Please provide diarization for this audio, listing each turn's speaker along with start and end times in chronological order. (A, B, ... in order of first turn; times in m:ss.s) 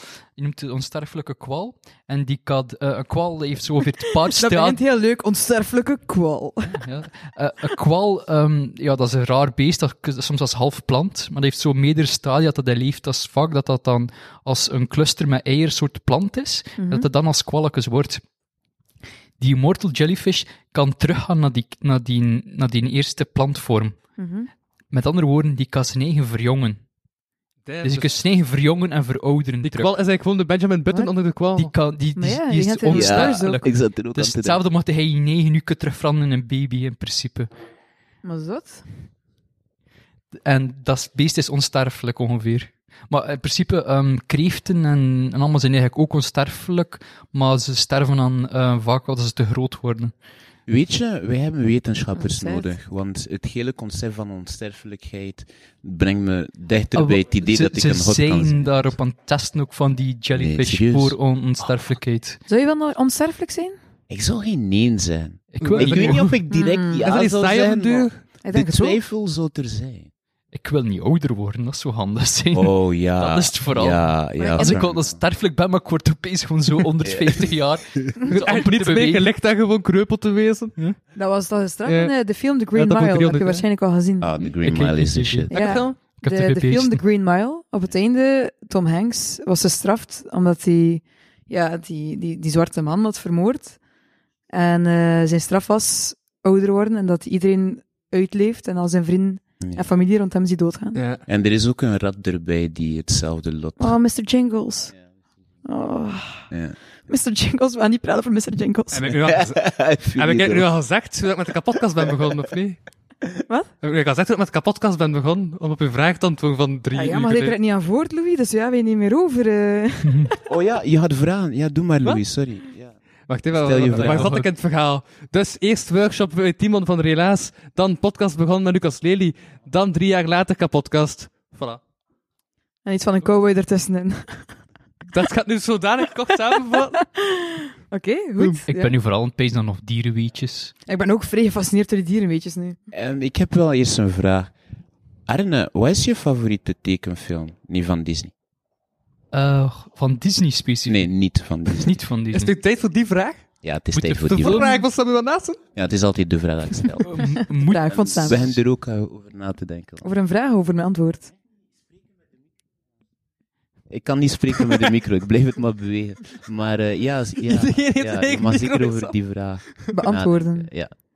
0:00.3-0:04.8 A
0:04.3-0:06.8 B
0:06.7-0:18.2 A
0:16.8-0:17.1 B
0:19.4-0:24.0 A
0:24.2-0:24.5 B
0:24.9-0:26.8 A
0:27.6-0:28.1 C
0:27.8-0:29.9 A
0:29.6-0:31.7 C
0:31.6-0:37.5 A
0:32.2-0:33.6 B
0:32.9-0:34.6 D
0:38.2-0:38.8 B
0:40.4-0:50.1 A
0:50.7-0:58.9 D
0:52.2-0:52.7 B
0:56.9-1:02.4 A
1:00.3-1:01.2 D
1:02.5-1:03.8 B
1:04.1-1:10.1 D
1:05.5-1:06.4 A
1:05.6-1:06.3 C
1:06.5-1:07.0 B
1:07.0-1:08.2 C
1:08.4-1:09.0 B
1:10.5-1:19.3 A
1:12.5-1:15.2 D
1:14.4-1:14.8 B
1:17.0-1:18.1 D
1:18.3-1:20.8 C
1:21.1-1:24.5 B
1:21.8-1:22.1 C
1:22.7-1:23.6 C
1:24.2-1:25.7 D
1:24.6-1:25.5 A
1:25.5-1:26.0 C
1:25.5-1:33.8 B
1:26.2-1:27.0 A
1:34.5-1:41.0 B
1:39.6-1:39.9 D
1:40.9-1:41.2 C
1:41.3-1:44.0 D
1:43.8-1:44.9 B
1:45.6-1:46.5 B
1:47.1-1:49.2 B
1:48.9-1:52.8 C
1:49.2-1:50.7 D
1:53.8-1:57.6 C
1:56.9-2:00.4 B
2:00.5-2:02.9 D
2:03.3-2:11.8 C
2:03.5-2:04.3 D
2:04.0-2:04.5 A
2:12.8-2:14.6 B
2:15.1-2:17.0 C
2:16.7-2:18.9 B
2:18.7-2:20.7 A
2:20.9-2:22.8 B
2:22.9-2:24.5 D
2:25.3-2:28.3 D
2:29.3-2:31.1 A
2:30.9-2:32.0 D
2:31.8-2:32.5 A
2:32.3-2:33.4 C
2:33.6-2:34.6 D
2:33.9-2:34.7 A
2:34.3-2:35.6 C
2:35.8-2:40.1 D
2:37.0-2:38.6 A
2:37.6-2:38.5 B
2:40.0-2:41.3 B
2:43.9-2:50.9 D
2:47.5-2:49.1 C
2:49.9-2:50.7 B